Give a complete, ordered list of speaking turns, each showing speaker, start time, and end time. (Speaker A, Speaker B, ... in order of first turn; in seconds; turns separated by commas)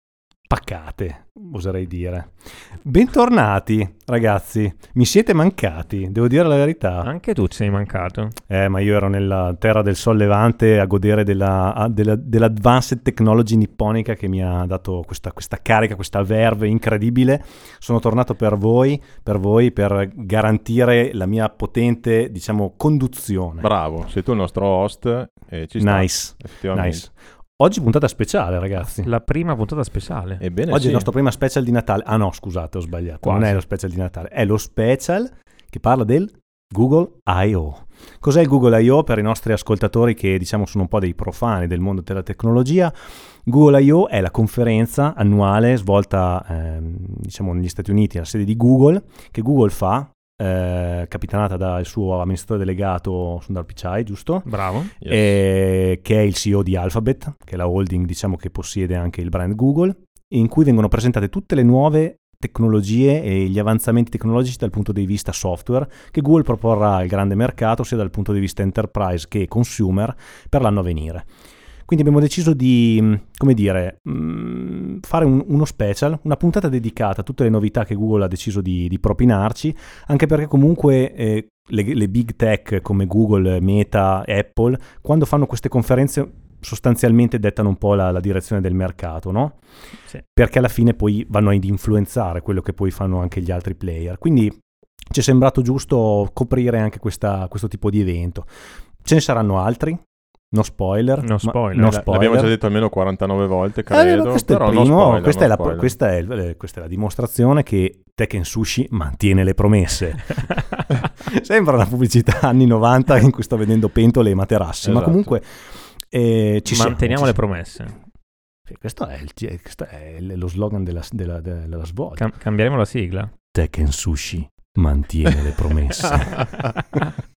Speaker A: 0.5-7.1, Speaker B: 7.0-8.3, Speaker A: 8.5-23.7, Speaker C: 23.6-27.0, Speaker A: 25.8-29.1, Speaker B: 29.0-30.4, Speaker C: 30.4-31.1, Speaker A: 30.7-71.3, Speaker B: 33.2-33.6, Speaker B: 54.5-54.9, Speaker C: 55.0-55.4, Speaker A: 71.8-89.7, Speaker A: 90.2-102.5, Speaker B: 101.2-102.0, Speaker C: 101.8-105.9, Speaker A: 103.9-117.4, Speaker C: 114.8-115.3, Speaker B: 116.7-118.0, Speaker A: 118.7-122.2, Speaker B: 122.2-123.3, Speaker A: 123.5-126.7